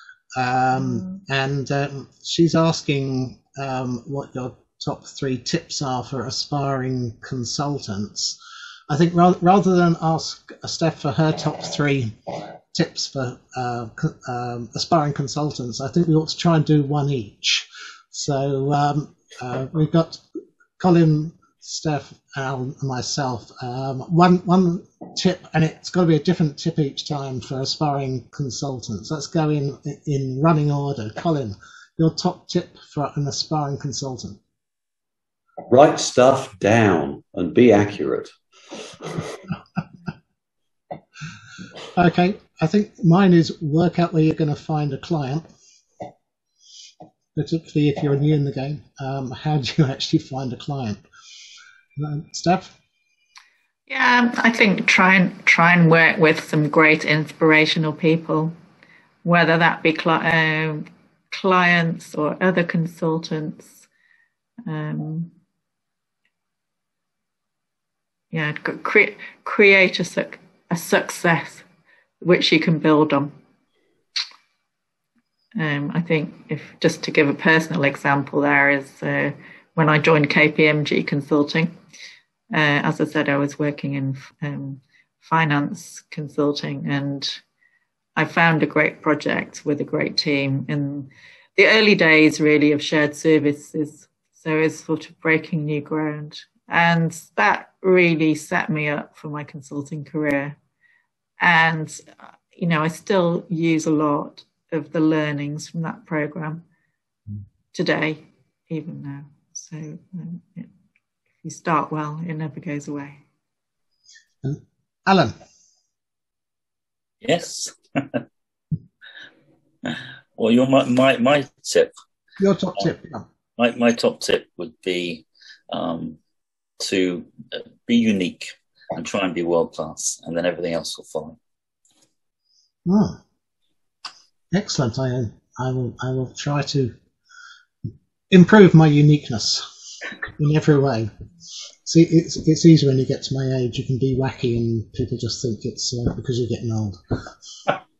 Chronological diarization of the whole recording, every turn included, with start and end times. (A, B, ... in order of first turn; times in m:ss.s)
0:00.4-0:08.4 A
0:08.9-0:20.2 A
0:20.8-0:34.4 A
0:35.7-0:39.4 B
0:41.9-0:45.5 A
0:47.4-0:51.0 A
0:52.0-0:52.7 A
0:53.9-0:58.5 C
0:59.2-1:03.9 C
1:04.7-1:05.3 C
1:08.3-1:11.6 C
1:12.2-1:13.3 C
1:15.6-1:21.7 C
1:22.5-1:27.4 C
1:28.2-1:40.6 C
1:41.4-1:46.6 C
1:47.7-1:50.7 C
1:51.4-1:53.2 C
1:54.4-1:55.3 A
1:57.2-1:58.2 D
1:59.8-2:01.9 D
2:02.4-2:03.2 A
2:03.6-2:06.2 D
2:06.8-2:11.4 D
2:12.9-2:13.2 A
2:14.5-2:16.9 A
2:18.3-2:19.7 A
2:20.4-2:21.1 A
2:21.8-2:27.0 A